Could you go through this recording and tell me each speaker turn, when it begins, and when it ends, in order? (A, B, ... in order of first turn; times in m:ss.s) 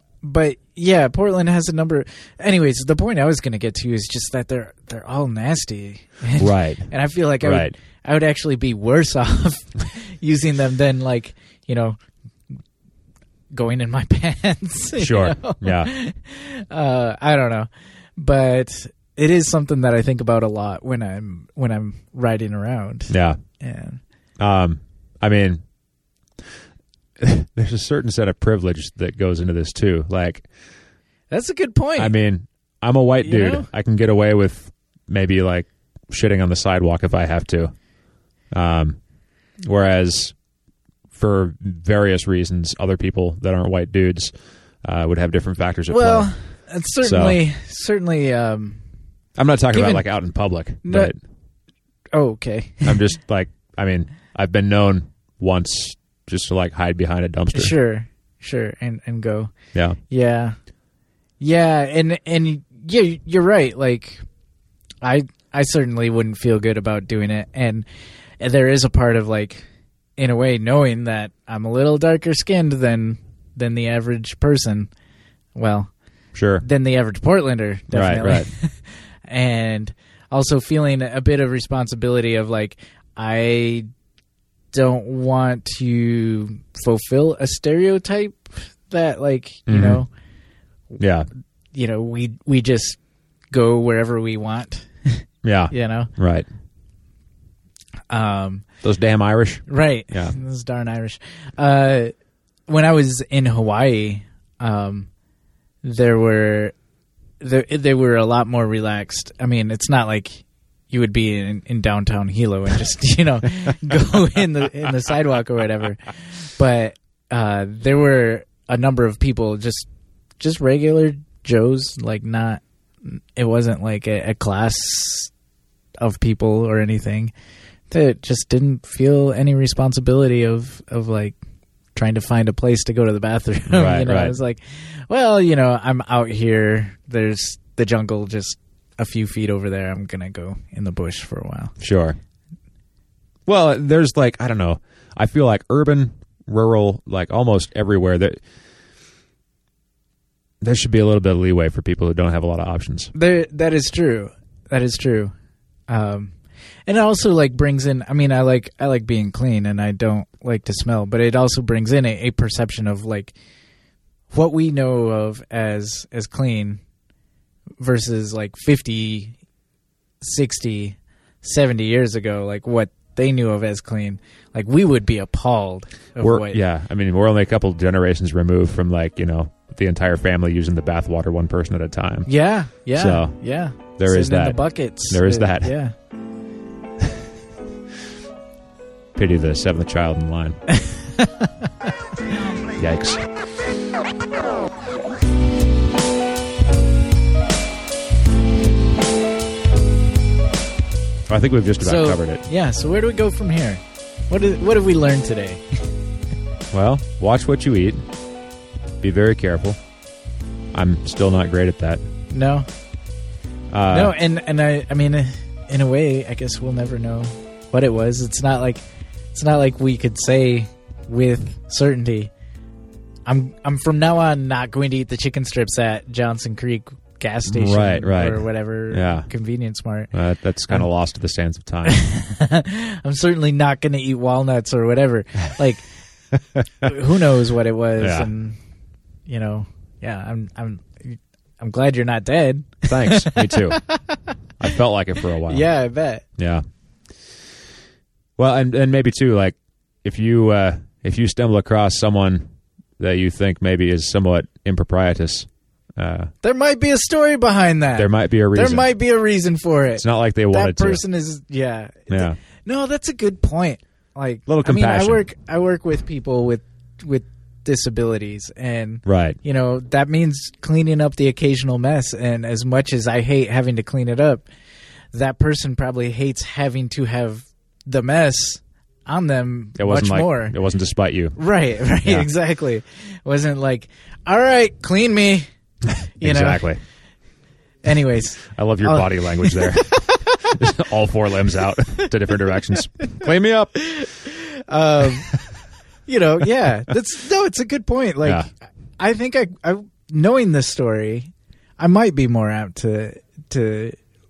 0:00.2-0:12.0 A
0:06.4-0:06.9 B
0:07.4-0:07.7 B
0:13.5-0:24.0 A
0:15.0-0:15.9 B
0:23.1-0:23.4 B
0:24.4-0:25.6 B
0:27.2-0:30.5 B
0:31.3-0:32.2 A
0:32.0-0:37.7 B
0:33.2-0:33.7 A
0:38.5-0:39.0 B
0:39.6-0:40.4 B
0:41.2-0:46.3 B
0:45.9-0:48.8 A
0:47.0-0:47.4 B
0:49.4-0:51.2 B
0:49.7-0:50.0 A
0:50.8-0:51.1 A
0:52.1-0:53.0 A
0:52.8-0:57.7 B
0:57.5-0:59.5 A
1:00.1-1:00.6 A
1:01.4-1:04.2 A
1:05.0-1:07.8 A
1:08.4-1:09.7 A
1:10.2-1:14.9 A
1:15.6-1:15.9 A
1:16.3-1:16.6 B
1:16.6-1:23.9 A
1:17.9-1:18.5 B
1:24.7-1:30.1 A
1:29.7-1:30.0 B
1:31.0-1:31.3 B
1:31.7-1:33.0 A
1:33.5-1:36.1 A
1:35.4-1:36.5 B
1:38.1-1:38.7 A
1:38.8-1:40.4 B
1:39.7-1:42.1 A
1:42.7-1:45.1 A
1:45.8-1:46.8 A
1:47.4-1:59.9 A
2:00.4-2:05.3 A
2:06.0-2:07.3 A
2:07.9-2:11.4 A
2:12.0-2:21.8 A
2:13.7-2:14.4 B
2:21.8-2:22.2 B
2:23.5-2:28.4 B
2:30.6-2:33.1 B
2:33.1-2:35.3 A
2:35.9-2:36.3 A
2:36.9-2:43.4 A
2:44.3-2:46.8 A
2:47.8-2:49.4 A
2:50.2-2:56.6 A
2:56.2-3:02.3 B
3:02.3-3:05.9 A
3:02.9-3:03.4 B
3:04.0-3:05.7 B
3:09.2-3:10.6 B
3:10.7-3:11.7 A
3:12.8-3:13.2 B
3:21.3-3:22.4 B
3:21.8-3:25.6 A
3:26.7-3:28.0 B
3:29.0-3:29.8 B
3:30.7-3:32.0 B
3:32.3-3:32.7 A
3:33.7-3:34.2 B
3:33.9-3:38.8 A
3:39.3-3:42.3 A
3:43.3-3:50.1 A
3:47.5-3:49.3 B
3:50.1-3:52.0 B
3:51.8-3:55.8 A
3:56.3-3:56.9 B
3:56.8-3:58.6 A
3:58.0-3:58.3 B
3:59.3-4:04.3 A
4:02.9-4:03.8 B
4:04.6-4:05.7 B
4:05.4-4:06.2 A
4:06.4-4:06.6 B
4:08.4-4:12.5 B
4:13.0-4:16.3 B
4:16.4-4:34.5 A
4:18.0-4:18.9 B
4:20.0-4:21.0 B
4:22.1-4:22.4 B
4:24.5-4:25.2 B
4:29.1-4:29.4 B
4:35.1-4:40.6 A
4:39.8-4:41.4 B
4:41.4-4:45.5 A
4:42.0-4:42.3 B
4:45.8-4:46.8 B
4:46.2-4:46.7 A
4:47.8-4:50.5 A
4:48.4-4:53.7 B
4:53.8-4:55.4 A
4:56.1-5:04.0 A